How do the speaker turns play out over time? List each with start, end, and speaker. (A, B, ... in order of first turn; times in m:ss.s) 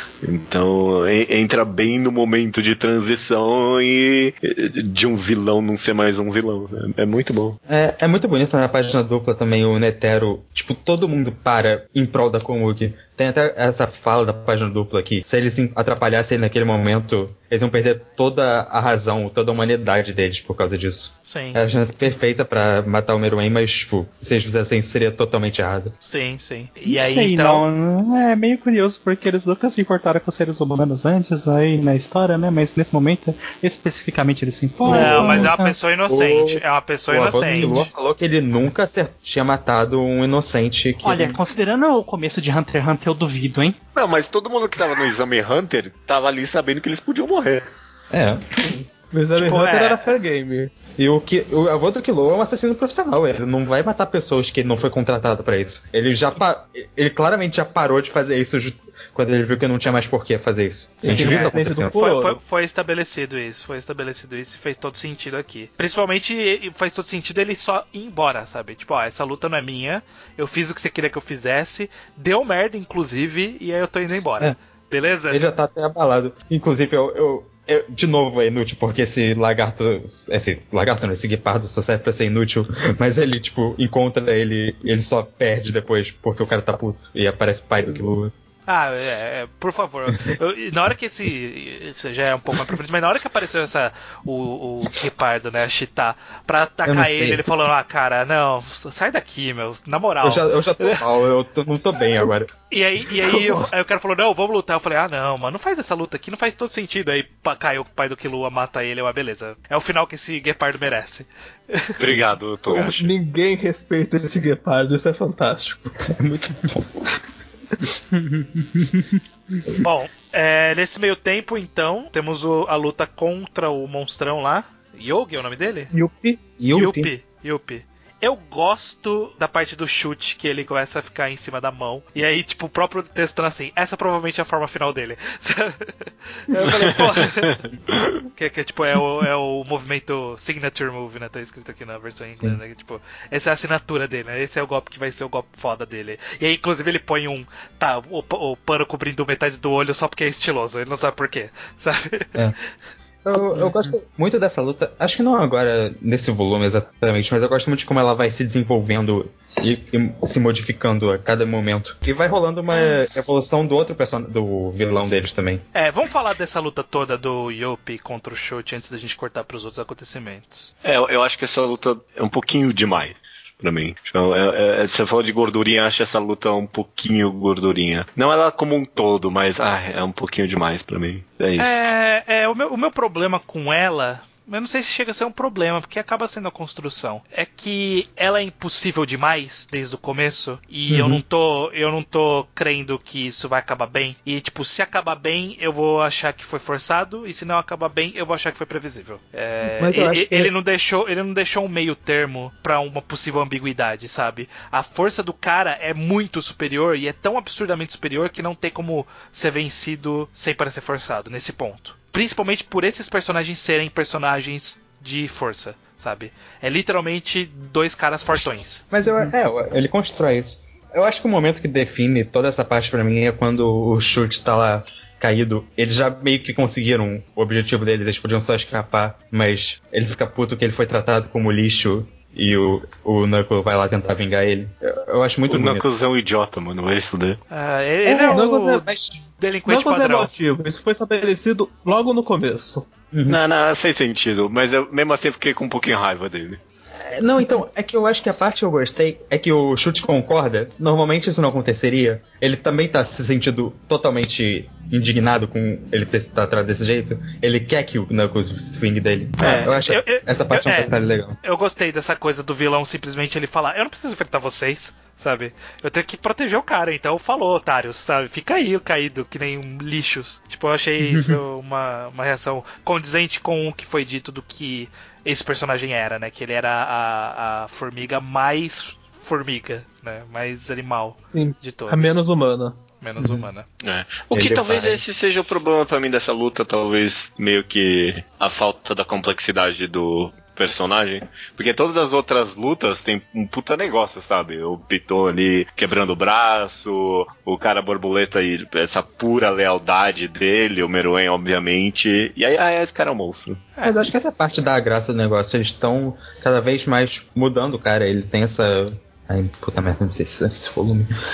0:00.2-0:07.6 A
0:07.7-0:25.9 B
0:21.2-0:21.6 C
0:26.0-0:27.6 C
0:26.8-0:35.8 D
0:34.8-0:35.5 B
0:34.9-0:37.9 C
0:36.1-0:41.4 B
0:37.6-0:37.9 D
0:41.0-0:43.8 D
0:43.9-0:47.6 A
0:48.1-0:48.7 B
0:49.1-0:50.7 E
0:49.3-0:50.1 C
0:51.0-1:02.0 B
1:01.0-1:02.4 E
1:01.0-1:15.4 C
1:15.3-1:28.3 B
1:28.7-1:41.0 C
1:36.8-1:37.5 B
1:40.2-1:42.5 B
1:42.7-1:52.0 C
1:43.4-1:43.6 E
1:52.0-1:53.1 A
1:52.7-1:55.9 E
1:56.1-1:57.0 B
1:58.1-1:59.7 D
1:59.8-2:05.9 C
2:05.9-2:06.4 E
2:06.6-2:07.1 B
2:06.7-2:17.6 C
2:18.4-2:32.4 C
2:33.2-2:45.6 B
2:45.7-2:50.7 C
2:50.8-3:01.8 A
3:01.6-3:38.8 C
3:10.9-3:11.2 B
3:19.6-3:20.5 B
3:38.9-3:55.9 B
3:55.5-3:57.4 A
3:57.5-4:00.3 C
3:58.0-3:59.2 B
3:58.2-3:58.9 E
3:59.6-4:02.9 E
4:03.1-4:03.4 B
4:03.3-4:06.6 A
4:07.1-4:21.4 B
4:19.4-4:19.7 A
4:19.4-4:20.9 C
4:21.4-4:42.2 C
4:31.0-4:31.4 D
4:41.3-4:42.8 E
4:43.0-4:43.6 C
4:43.2-4:43.5 B
4:43.8-5:03.6 A
4:44.3-4:45.0 B
5:03.8-5:11.1 B